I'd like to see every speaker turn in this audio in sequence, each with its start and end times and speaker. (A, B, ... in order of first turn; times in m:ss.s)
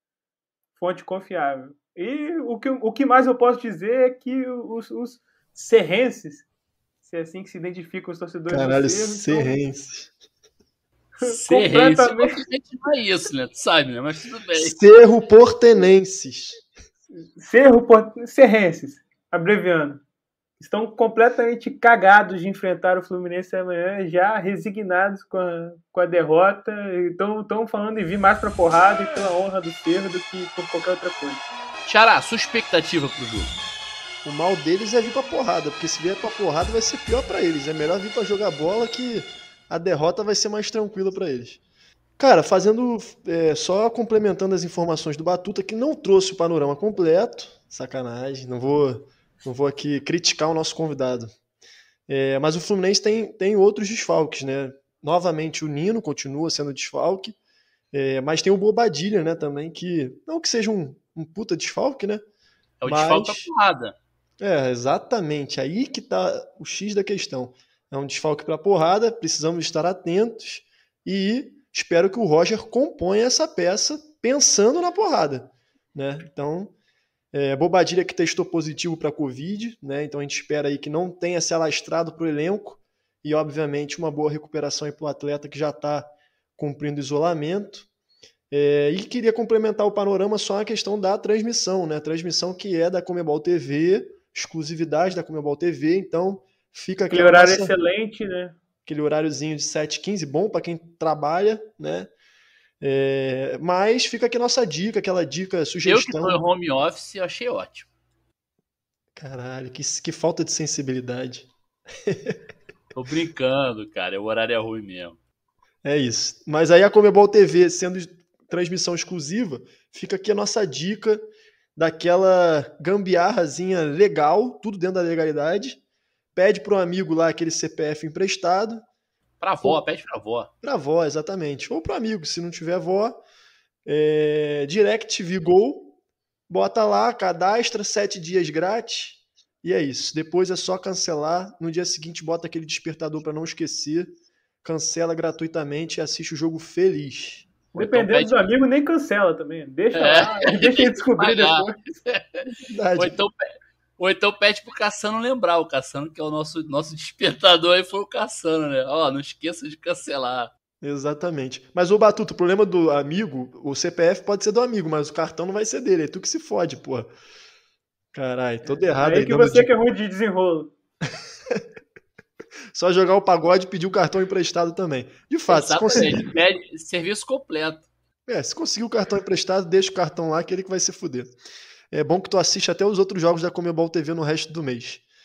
0:00.8-0:06.4 A
0:07.0-0:09.5 A
0:08.5-0:10.1 B
0:11.2-0:12.4 A
0:11.2-0:15.0 C
0:14.6-0:16.6 B
0:17.4-0:20.0 A
0:20.6-0:31.4 A
0:31.8-0:33.6 C
0:34.2-0:41.6 B
0:42.2-0:51.3 B
0:52.1-0:57.4 B
0:57.9-1:02.2 B
1:02.8-1:04.0 C
1:02.8-1:03.5 B
1:04.4-1:16.7 B
1:17.3-1:27.9 B
1:28.5-1:37.7 B
1:37.1-1:38.6 A
1:38.8-1:42.1 B
1:42.8-1:46.4 B
1:45.8-1:47.9 C
1:49.2-1:51.5 B
1:52.0-1:52.4 B
1:52.9-1:55.2 C
1:55.8-2:01.2 B
2:01.8-2:05.8 B
2:06.3-2:08.8 B
2:09.4-2:10.5 C
2:10.6-2:13.2 B
2:13.8-2:16.0 B
2:16.5-2:27.5 B
2:27.7-2:28.4 C
2:27.8-2:31.8 A
2:29.9-2:40.5 C
2:32.6-2:33.2 B
2:40.8-2:47.1 B
2:48.1-2:49.7 B
2:48.9-2:50.7 A
2:52.7-2:56.2 B
2:55.5-2:57.9 C
2:58.3-3:01.4 B
3:01.9-3:05.0 B